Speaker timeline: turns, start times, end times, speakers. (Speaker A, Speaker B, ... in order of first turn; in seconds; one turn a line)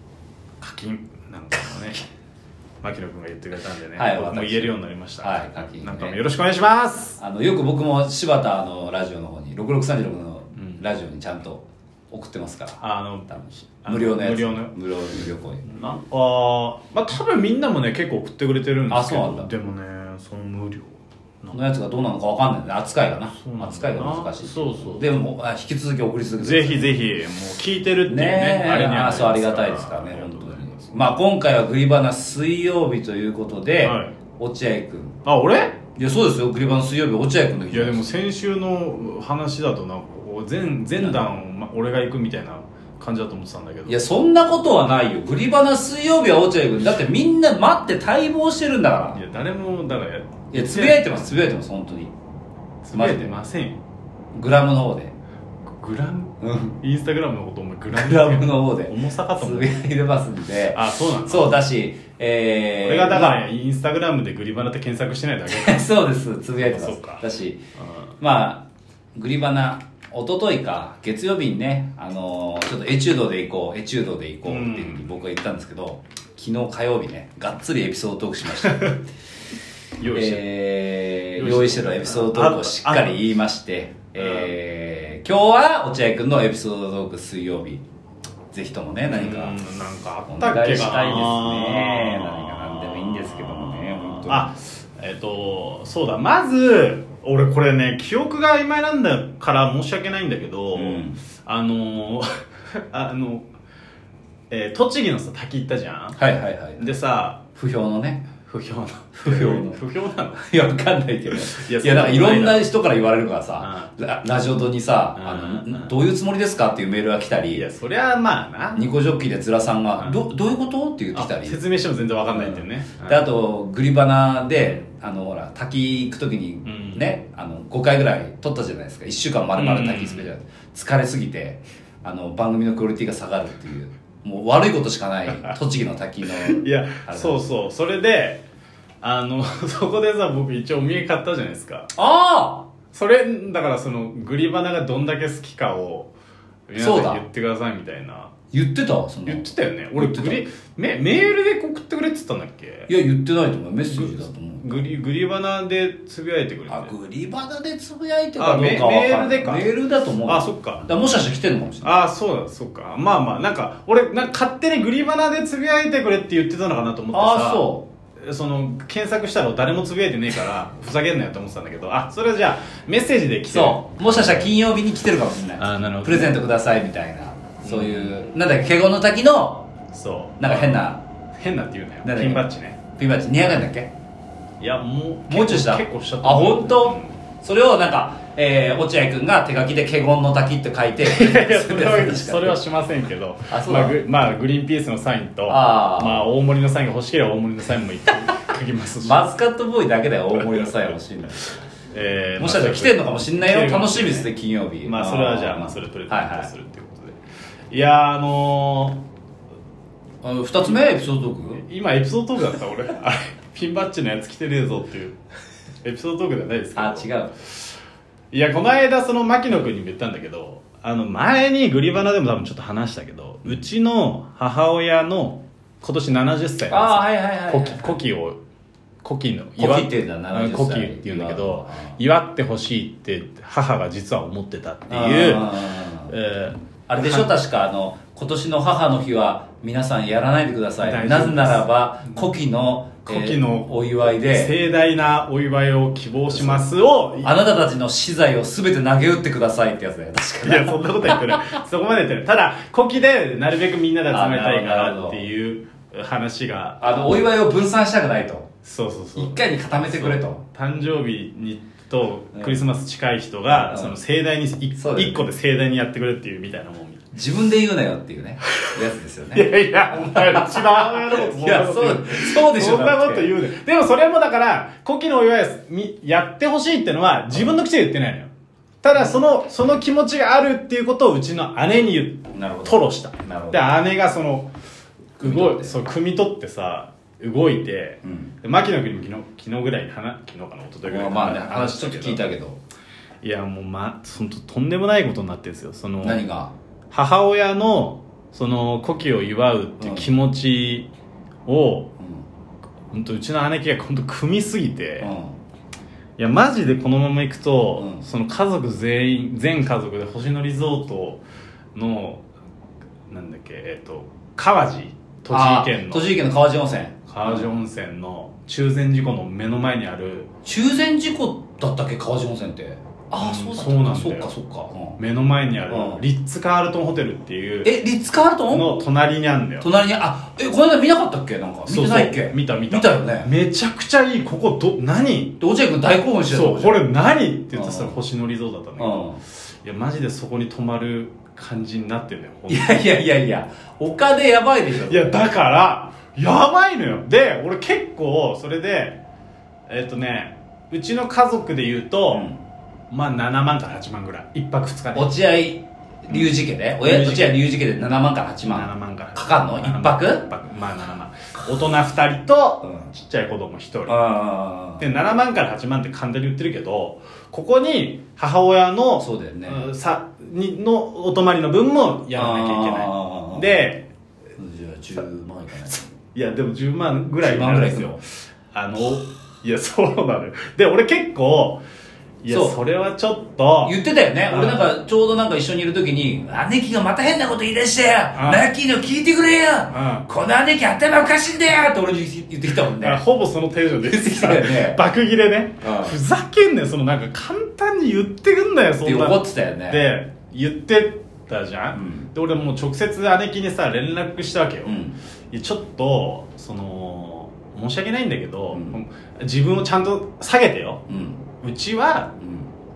Speaker A: 0.6-2.0
Speaker A: 2.8-7.2
Speaker B: 4.0-6.2
Speaker B: 7.2-15.6
Speaker A: 10.6-10.8
Speaker A: 12.8-14.8
Speaker A: 15.6-21.6
Speaker B: 18.9-19.5
Speaker B: 21.5-26.9
Speaker A: 23.3-25.1
Speaker A: 26.4-31.1
Speaker B: 28.1-35.2
Speaker A: 33.8-34.1
Speaker A: 35.2-35.8
Speaker B: 36.0-38.0
Speaker A: 37.7-44.0
Speaker B: 41.0-41.3
Speaker B: 43.9-49.2
Speaker A: 49.1-51.2
Speaker B: 50.5-52.1
Speaker A: 52.8-53.8
Speaker B: 52.9-53.4
Speaker B: 54.3-55.1
Speaker A: 55.7-59.8
Speaker B: 56.4-56.8
Speaker B: 57.9-63.4
Speaker A: 60.7-61.6
Speaker A: 62.8-65.9
Speaker B: 65.5-67.6
Speaker A: 66.6-67.2
Speaker B: 68.2-79.0
Speaker A: 74.5-75.0
Speaker A: 78.7-79.0
Speaker A: 80.0-80.4
Speaker B: 80.1-87.8
Speaker A: 81.4-83.2
Speaker A: 84.2-84.5
Speaker B: 88.5-89.6
Speaker A: 89.1-102.3
Speaker B: 90.3-94.5
Speaker B: 100.8-101.2
Speaker A: 102.9-103.5
Speaker A: 104.5-106.2
Speaker B: 106.2-106.9
Speaker A: 106.8-107.4
Speaker B: 107.6-108.3
Speaker A: 108.4-110.5
Speaker B: 109.2-109.8
Speaker B: 110.4-117.7
Speaker A: 111.3-112.7
Speaker A: 113.6-113.9
Speaker A: 115.2-115.9
Speaker A: 117.5-118.9
Speaker B: 118.8-121.6
Speaker A: 121.1-123.3
Speaker B: 122.3-137.4
Speaker A: 126.7-127.1
Speaker A: 129.6-130.3
Speaker A: 136.3-138.4
Speaker A: 139.0-141.9
Speaker B: 142.0-142.7
Speaker A: 142.9-146.1
Speaker A: 146.7-148.3
Speaker B: 146.8-147.2
Speaker B: 148.5-150.4
Speaker A: 149.3-152.9
Speaker B: 152.9-154.9
Speaker A: 153.9-156.9
Speaker B: 156.7-161.9
Speaker A: 158.4-159.7
Speaker A: 160.3-160.9
Speaker A: 161.8-167.7
Speaker B: 167.1-167.9
Speaker A: 168.2-174.5
Speaker B: 173.5-179.7
Speaker A: 175.6-176.4
Speaker A: 177.6-178.2
Speaker A: 179.9-182.8
Speaker B: 180.4-181.0
Speaker B: 182.0-182.5
Speaker B: 183.0-183.9
Speaker A: 184.6-187.2
Speaker B: 185.3-192.6
Speaker A: 191.1-199.3
Speaker B: 193.5-194.0
Speaker B: 195.5-196.3
Speaker B: 199.0-201.6
Speaker A: 201.9-204.3
Speaker B: 202.4-206.5
Speaker A: 204.8-207.2
Speaker A: 207.7-209.0
Speaker B: 210.2-211.6
Speaker A: 211.6-215.2
Speaker A: 215.8-217.6
Speaker B: 216.8-217.3
Speaker A: 218.3-228.4
Speaker B: 226.7-228.0
Speaker A: 229.0-235.6
Speaker B: 229.6-232.0
Speaker B: 234.9-236.1
Speaker A: 236.1-237.3
Speaker B: 236.9-244.5
Speaker A: 240.8-241.7
Speaker A: 243.1-247.4
Speaker B: 246.3-246.7
Speaker B: 247.2-251.2
Speaker A: 250.4-257.0
Speaker B: 254.1-255.2
Speaker B: 256.8-258.5
Speaker A: 258.6-267.1
Speaker B: 259.2-260.4
Speaker B: 262.3-262.6
Speaker B: 263.5-264.0
Speaker B: 264.8-265.2
Speaker B: 267.1-273.4
Speaker A: 269.3-278.3
Speaker A: 278.8-284.5
Speaker B: 278.9-279.2
Speaker B: 282.3-283.6
Speaker B: 285.2-285.8
Speaker A: 285.2-292.2
Speaker B: 288.0-288.3
Speaker B: 290.9-292.6
Speaker A: 293.2-296.2
Speaker B: 296.0-296.5
Speaker A: 296.9-300.9
Speaker B: 299.8-300.1
Speaker A: 301.5-301.9
Speaker B: 302.0-302.3
Speaker A: 302.9-305.1
Speaker B: 305.0-305.4
Speaker A: 306.2-311.2
Speaker B: 307.8-308.1
Speaker A: 311.8-312.2
Speaker A: 313.1-316.1
Speaker B: 315.3-317.5
Speaker A: 317.1-320.3
Speaker B: 320.4-325.0
Speaker A: 323.2-324.3
Speaker A: 325.0-327.7
Speaker B: 325.7-326.0
Speaker B: 327.6-328.8
Speaker A: 328.5-329.7
Speaker B: 329.6-333.3
Speaker A: 331.7-335.4
Speaker B: 335.4-336.8
Speaker A: 336.3-342.9
Speaker B: 337.5-337.9
Speaker B: 338.8-339.2
Speaker B: 342.5-345.2
Speaker A: 344.9-349.0
Speaker A: 349.7-352.3
Speaker B: 352.1-352.4
Speaker A: 352.9-355.1
Speaker B: 354.9-360.3
Speaker A: 356.1-357.4
Speaker A: 358.4-364.0
Speaker B: 363.9-364.9
Speaker A: 364.8-373.9
Speaker B: 369.0-369.7
Speaker B: 372.1-373.6
Speaker B: 374.4-375.8
Speaker A: 376.1-381.6
Speaker B: 377.2-378.0
Speaker A: 382.2-383.8
Speaker B: 382.3-382.6
Speaker B: 383.6-393.0
Speaker A: 384.3-384.7
Speaker A: 388.1-388.5
Speaker A: 389.7-390.1
Speaker A: 392.8-404.8
Speaker B: 393.8-394.8
Speaker B: 395.6-396.0
Speaker B: 398.8-399.9
Speaker B: 401.7-402.1
Speaker B: 404.6-405.0
Speaker A: 405.3-410.8
Speaker B: 408.5-408.8
Speaker B: 410.9-411.2
Speaker A: 411.4-412.1
Speaker B: 412.2-412.5